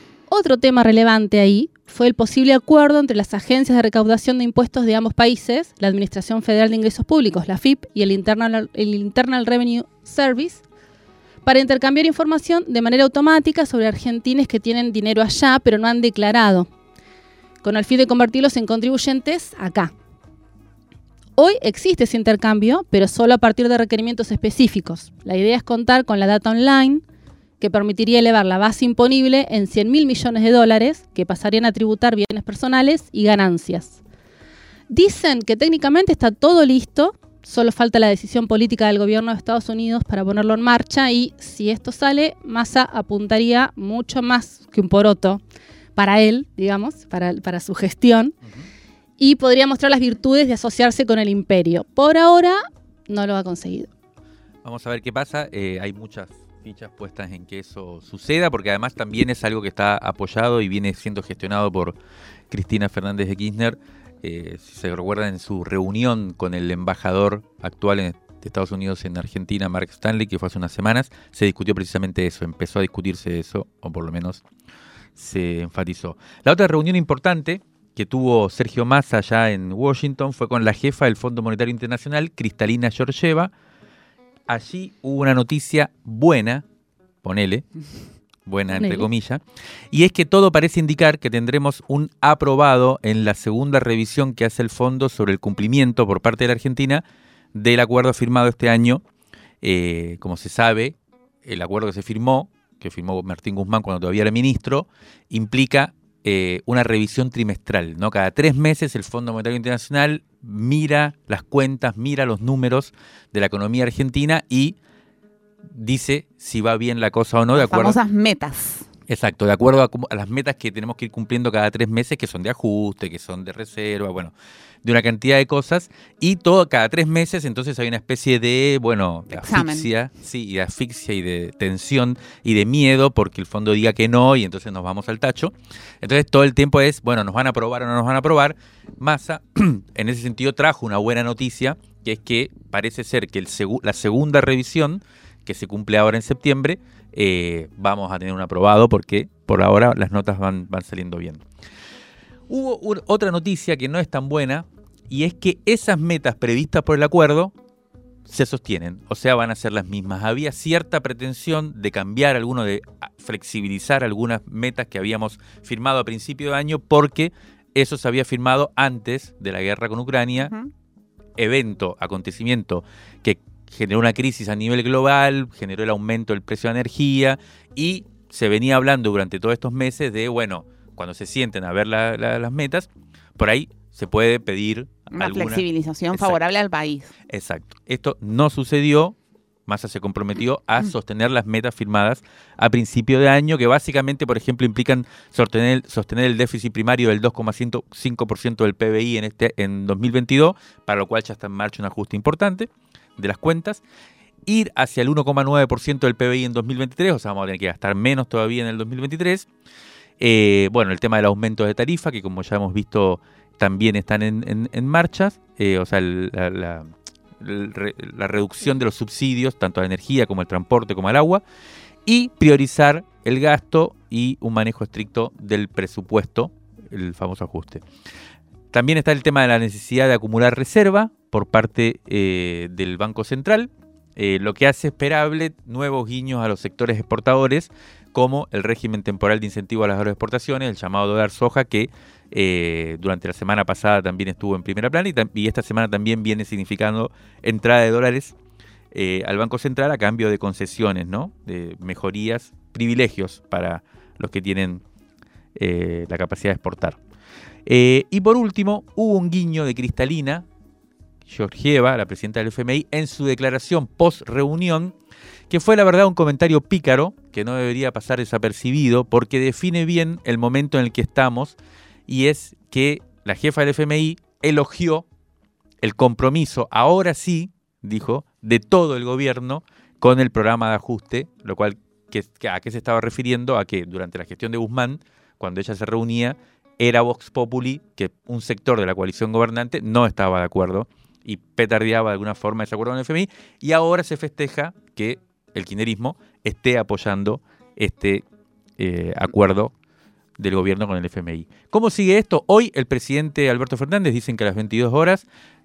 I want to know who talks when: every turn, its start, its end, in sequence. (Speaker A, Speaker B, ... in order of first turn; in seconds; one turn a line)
Speaker A: 0.3-10.6
Speaker A: 11.4-16.7
Speaker A: 17.6-19.9
Speaker A: 21.4-27.0
Speaker A: 27.6-34.0
Speaker A: 34.9-45.4
Speaker A: 46.0-48.3
Speaker A: 49.2-53.9
Speaker B: 54.6-62.0
Speaker B: 62.5-74.4
Speaker B: 75.2-83.5
Speaker B: 84.5-86.6
Speaker B: 87.2-87.7
Speaker B: 88.5-89.4
Speaker A: 88.7-89.1
Speaker B: 89.9-97.0
Speaker B: 97.5-99.0
Speaker B: 99.6-114.8
Speaker B: 115.7-118.0
Speaker C: 117.5-118.8
Speaker B: 119.1-124.3
Speaker B: 124.8-151.4
Speaker C: 129.3-129.9
Speaker B: 152.5-157.5
Speaker B: 158.3-170.5
Speaker C: 170.4-170.7
Speaker B: 171.4-186.4
Speaker C: 185.1-187.1
Speaker B: 187.3-189.1
Speaker B: 189.7-203.8
Speaker B: 204.5-209.5
Speaker B: 210.2-216.9
Speaker B: 217.4-221.4
Speaker B: 222.1-227.8
Speaker B: 228.7-248.3
Speaker B: 248.9-254.8
Speaker B: 255.6-257.0
Speaker B: 257.6-260.4
Speaker B: 261.3-264.9
Speaker B: 265.5-275.1
Speaker B: 275.8-298.2
Speaker B: 298.8-299.7
Speaker B: 300.4-305.2